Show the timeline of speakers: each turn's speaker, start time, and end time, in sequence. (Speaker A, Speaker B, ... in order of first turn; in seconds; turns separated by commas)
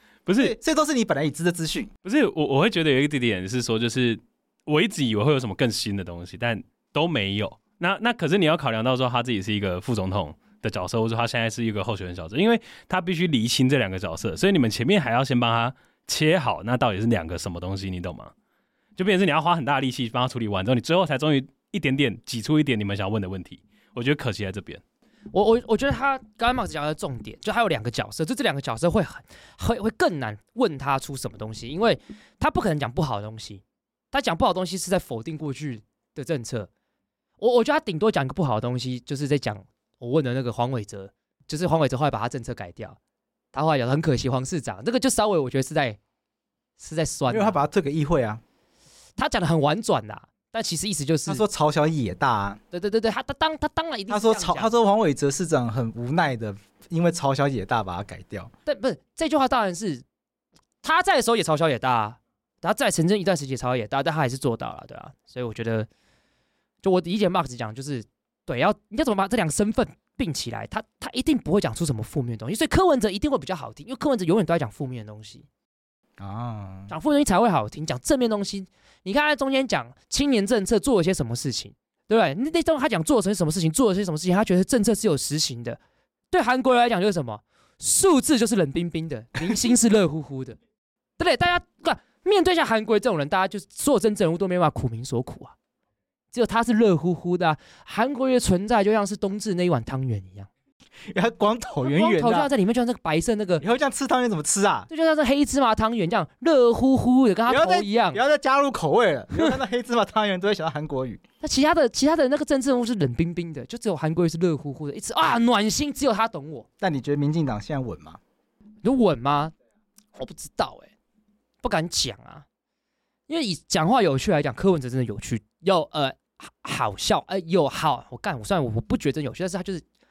Speaker A: 0.2-0.5, Speaker B: 0.4-1.9, Speaker A: 2.0-18.3, Speaker A: 19.0-24.8, Speaker C: 25.3-36.7, Speaker C: 37.4-43.0, Speaker C: 43.5-46.0, Speaker C: 46.8-47.6, Speaker B: 47.3-48.4, Speaker C: 49.2-51.4, Speaker B: 51.3-52.6, Speaker C: 52.7-54.7, Speaker B: 54.1-58.5, Speaker C: 58.6-60.0, Speaker C: 60.8-65.9, Speaker C: 66.8-75.5, Speaker B: 76.2-76.9, Speaker C: 76.9-85.8, Speaker C: 86.3-90.6, Speaker C: 91.2-95.5, Speaker C: 96.3-100.5, Speaker B: 101.1-102.5, Speaker C: 101.8-103.6, Speaker B: 103.6-104.9, Speaker C: 104.9-108.2, Speaker B: 107.5-111.2, Speaker C: 111.4-116.7, Speaker B: 116.8-118.2, Speaker C: 118.8-119.5, Speaker C: 120.1-120.9, Speaker C: 121.6-122.4, Speaker C: 123.3-129.8